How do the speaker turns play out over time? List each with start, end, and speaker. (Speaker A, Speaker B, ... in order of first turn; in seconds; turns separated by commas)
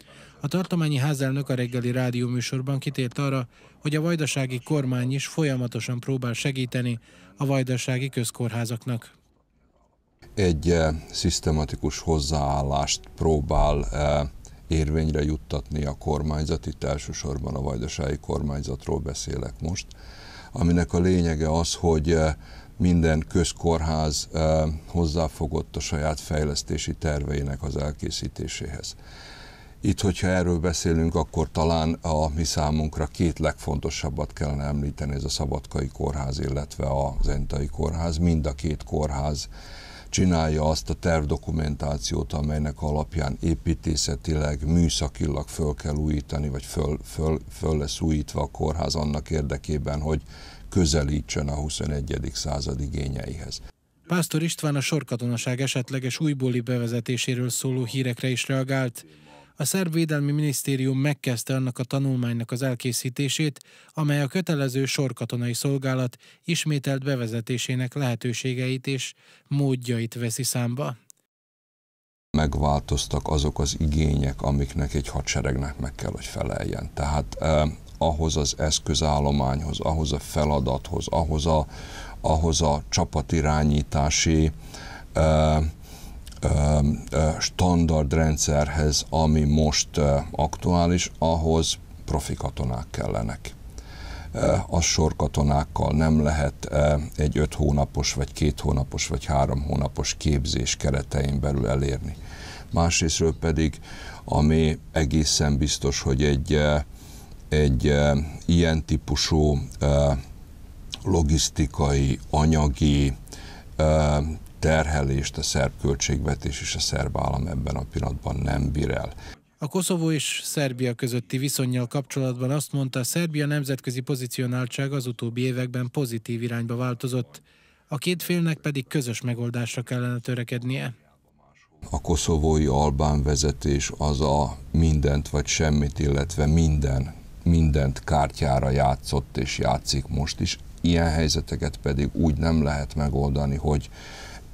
Speaker A: 0.4-9.1, Speaker B: 10.4-19.9, Speaker B: 20.5-29.0, Speaker B: 29.8-39.5, Speaker B: 40.1-53.6, Speaker A: 54.1-59.1, Speaker A: 59.6-71.0, Speaker B: 72.3-81.7, Speaker B: 82.2-84.5, Speaker B: 85.1-85.7, Speaker B: 86.4-93.6, Speaker B: 94.3-102.2, Speaker B: 102.7-106.8, Speaker B: 107.5-110.2, Speaker B: 111.0-113.2, Speaker B: 113.8-119.1, Speaker A: 119.6-130.9, Speaker B: 131.9-143.9